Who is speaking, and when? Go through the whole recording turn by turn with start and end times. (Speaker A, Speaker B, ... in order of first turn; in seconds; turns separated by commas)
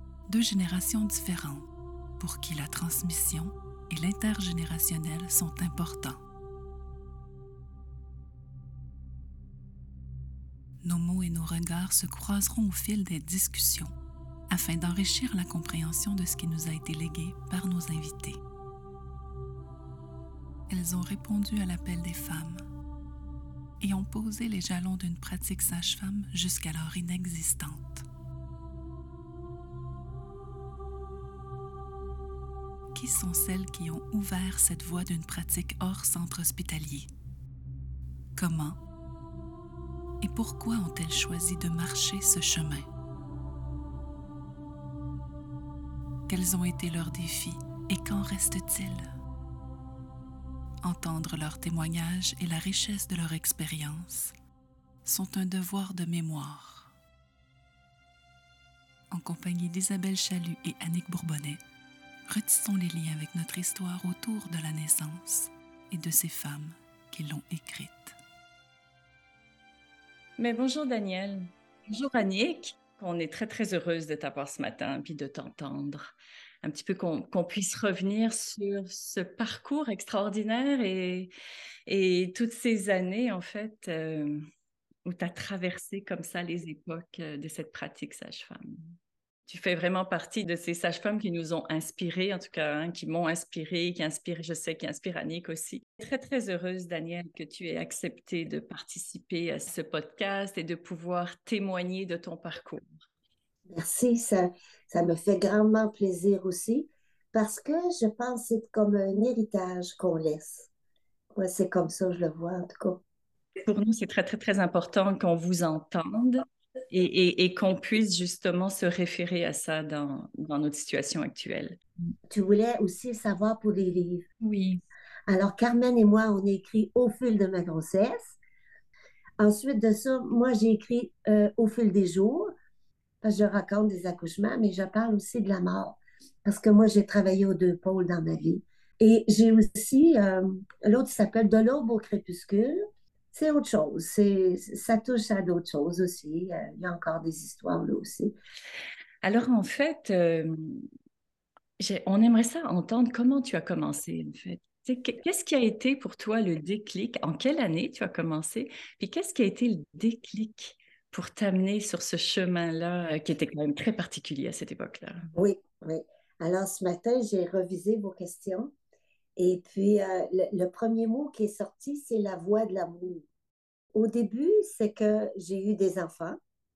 Speaker A: 0.3-1.6, Speaker A: 2.2-6.2, Speaker A: 10.8-13.9, Speaker A: 14.5-18.4, Speaker A: 20.7-22.6, Speaker A: 23.8-28.1, Speaker A: 32.9-37.1, Speaker A: 38.4-38.8, Speaker A: 40.2-42.9, Speaker A: 46.3-49.1, Speaker A: 50.8-54.3, Speaker A: 55.0-56.9, Speaker A: 59.1-61.6, Speaker A: 62.3-68.1, Speaker B: 70.4-76.1, Speaker B: 76.6-81.3, Speaker B: 81.9-84.4, Speaker B: 85.0-88.9, Speaker B: 89.5-103.0, Speaker C: 103.7-110.7, Speaker C: 111.3-113.0, Speaker B: 113.6-121.8, Speaker C: 122.3-124.2, Speaker B: 124.4-124.8, Speaker C: 125.3-128.4, Speaker C: 129.4-132.5, Speaker C: 133.2-142.8, Speaker C: 143.3-148.3, Speaker B: 149.2-150.9, Speaker B: 151.8-165.2, Speaker C: 165.3-168.7, Speaker C: 169.4-173.2, Speaker C: 173.9-176.4